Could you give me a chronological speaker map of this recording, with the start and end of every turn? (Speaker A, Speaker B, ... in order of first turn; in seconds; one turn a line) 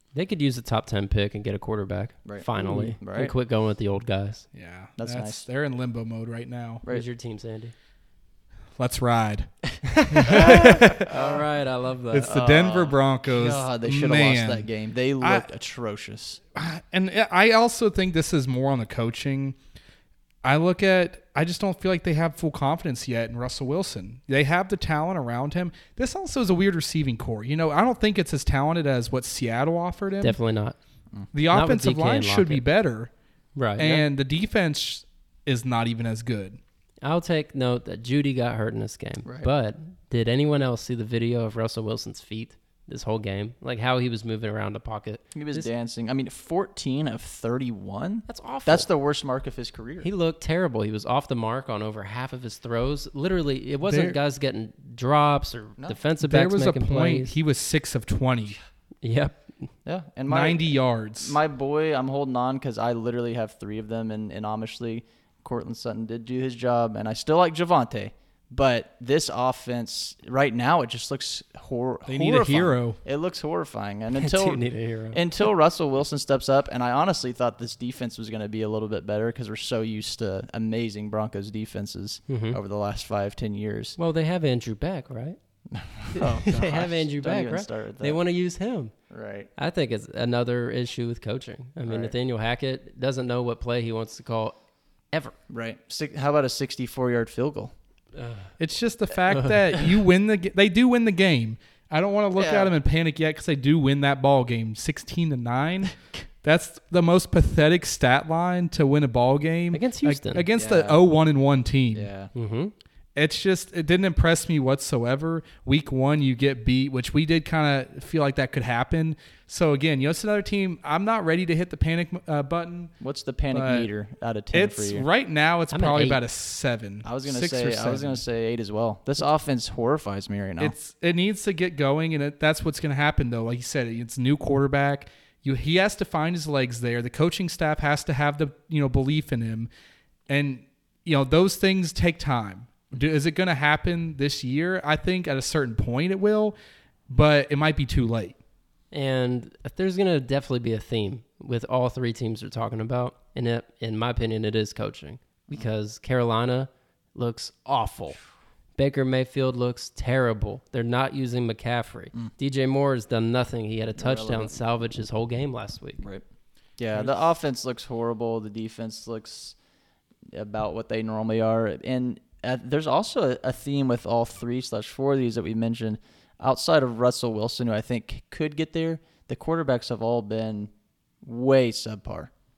Speaker A: 0.1-4.5
Speaker B: 2.3-3.3
Speaker C: 4.5-6.8
Speaker B: 5.0-5.5
Speaker A: 6.9-7.7
Speaker C: 8.8-9.5
Speaker A: 9.8-12.4
Speaker C: 10.1-11.1
Speaker B: 11.1-11.4
Speaker C: 12.1-14.7
Speaker B: 12.2-16.4
Speaker C: 15.2-15.5
Speaker C: 16.6-19.6
Speaker C: 20.4-30.4
Speaker A: 30.2-30.8
Speaker C: 31.3-33.1
Speaker A: 31.5-32.6
Speaker A: 33.6-34.0
Speaker C: 33.8-36.6
Speaker A: 37.0-45.7
Speaker B: 45.4-50.1
Speaker A: 48.3-48.9
Speaker A: 50.0-57.4
Speaker C: 53.8-54.2
Speaker C: 56.2-58.6
Speaker A: 59.0-59.7
Speaker B: 59.9-84.0
Speaker C: 60.3-61.4
Speaker C: 72.1-73.0
Speaker A: 74.2-75.2
Speaker A: 82.3-82.6
Speaker A: 84.0-85.4
Speaker B: 85.7-88.2
Speaker A: 86.1-88.9
Speaker B: 89.1-89.5
Speaker A: 89.6-94.5
Speaker B: 91.9-92.1
Speaker B: 95.5-97.7
Speaker A: 98.2-98.5
Speaker C: 98.6-112.1
Speaker A: 99.3-99.6
Speaker B: 102.4-102.7
Speaker A: 109.7-110.5
Speaker B: 110.6-111.0
Speaker B: 111.9-112.3
Speaker A: 112.3-112.7
Speaker C: 113.2-122.9
Speaker B: 123.0-125.1
Speaker C: 123.5-123.9
Speaker C: 124.5-128.2
Speaker A: 125.7-126.2
Speaker B: 127.0-130.8
Speaker C: 130.6-139.7
Speaker C: 140.3-146.5
Speaker C: 147.1-148.4
Speaker A: 148.9-158.2
Speaker A: 158.8-166.0
Speaker B: 164.0-164.6
Speaker B: 166.8-169.6
Speaker B: 170.3-180.7
Speaker B: 181.2-182.3